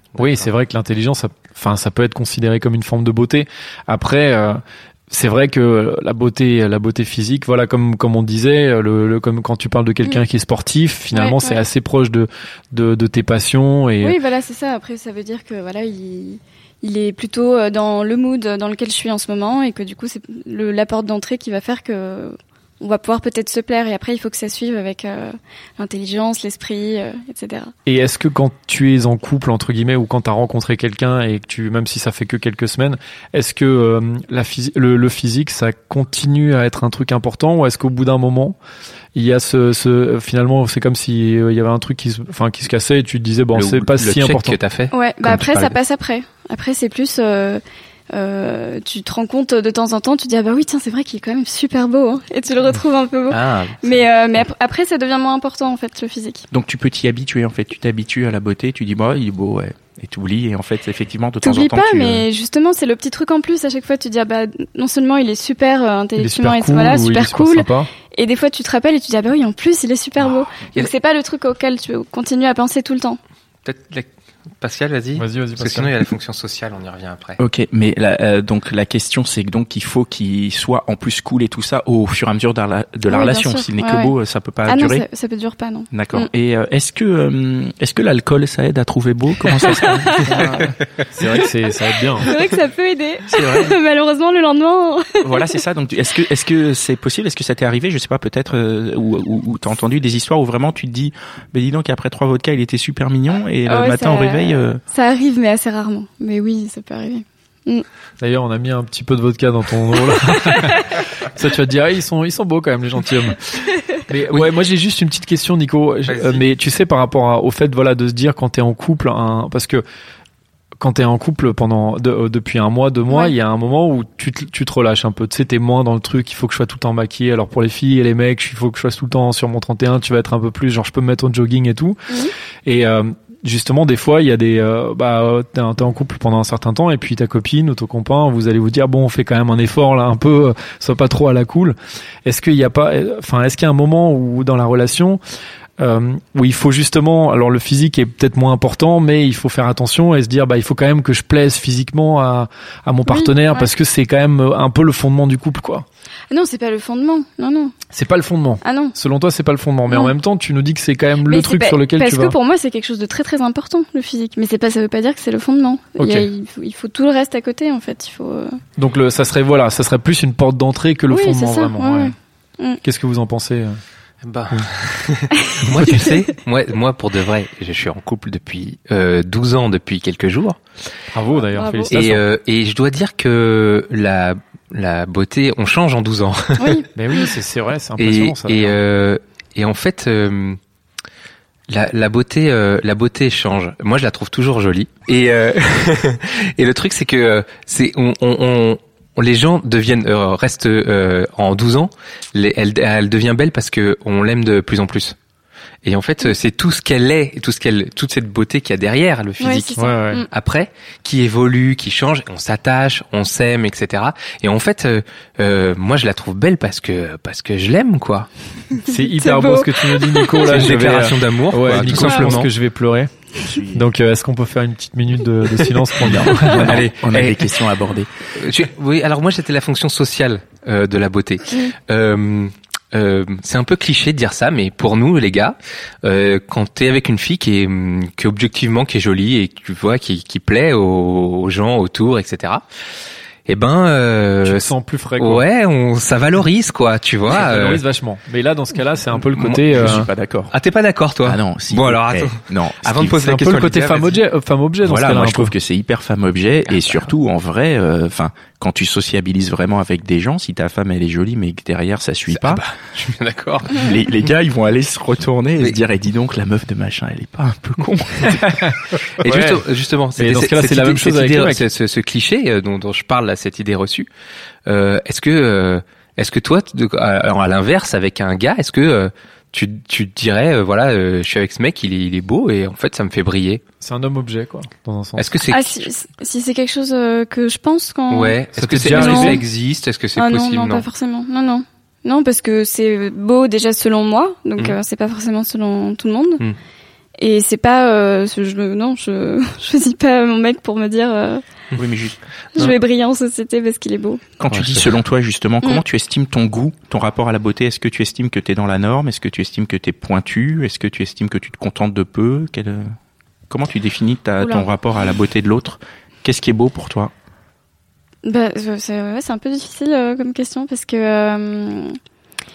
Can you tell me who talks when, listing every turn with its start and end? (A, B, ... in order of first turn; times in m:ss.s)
0:00.1-0:00.5 A
0:00.2-0:14.2 B
0:11.1-0:11.6 C
0:14.0-0:27.7 C
0:27.8-0:38.6 B
0:39.1-0:44.6 B
0:43.5-0:45.7 A
0:44.9-0:56.5 C
0:53.3-0:54.0 A
0:56.5-1:02.2 D
1:01.4-1:13.2 C
1:06.2-1:07.9 B
1:10.6-1:10.9 A
1:13.6-1:14.1 A
1:14.6-1:17.4 A
1:15.2-1:15.9 B
1:17.4-1:25.0 D
1:23.1-1:24.1 C
1:24.6-1:26.3 C
1:25.9-1:30.7 D
1:29.6-1:30.6 C
1:30.2-1:32.3 B
1:32.2-1:35.5 C
1:33.3-1:33.7 D
1:35.2-1:44.8 D
1:43.6-1:47.8 C
1:48.2-1:53.4 B
1:54.0-1:59.8 B
1:56.1-1:56.4 A
2:00.8-2:25.2 B
2:25.8-2:35.8 B
2:33.1-2:33.7 C
2:36.3-2:37.7 C
2:37.9-2:42.4 B
2:38.6-2:38.9 C
2:41.2-2:48.6 C
2:46.0-2:46.3 B
2:48.8-2:52.1 B
2:51.1-2:52.8 C
2:52.8-2:53.8 B
2:54.2-3:00.6 A
2:55.4-2:56.1 C
3:01.1-3:02.2 B
3:01.5-3:01.9 C
3:01.9-3:06.8 A
3:06.6-3:06.9 C
3:06.9-3:08.8 B
3:08.0-3:10.6 A
3:11.7-3:25.2 A
3:25.8-3:38.3 A
3:29.4-3:30.3 C
3:29.8-3:30.2 B
3:38.7-3:40.6 C
3:38.9-3:43.1 B
3:40.4-3:42.5 A
3:42.0-3:42.3 C
3:43.4-3:43.8 D
3:43.7-3:46.8 B
3:46.0-3:48.1 D
3:46.0-3:47.6 A
3:48.3-4:02.6 A
4:03.5-4:07.8 A
4:04.4-4:05.4 B
4:07.3-4:10.1 B
4:09.4-4:14.2 A
4:09.6-4:10.5 D
4:11.2-4:13.3 D
4:13.1-4:15.5 B
4:14.8-4:22.6 D
4:16.7-4:17.1 A
4:22.3-4:24.1 A
4:23.7-4:28.5 D
4:28.3-4:29.6 B
4:29.2-4:34.1 A
4:30.2-4:31.6 B
4:34.6-4:43.6 A
4:43.8-4:45.4 B
4:45.2-4:45.9 A
4:45.5-4:48.4 C
4:48.1-4:50.8 A
4:48.5-4:49.4 B
4:48.9-4:49.4 C
4:50.2-4:56.4 C
4:57.2-5:01.4 C
5:01.8-5:02.2 D
5:02.6-5:04.2 C
5:04.4-5:12.9 D
5:04.5-5:05.0 A
5:13.5-5:17.1 D
5:14.4-5:14.7 C
5:18.2-5:22.0 C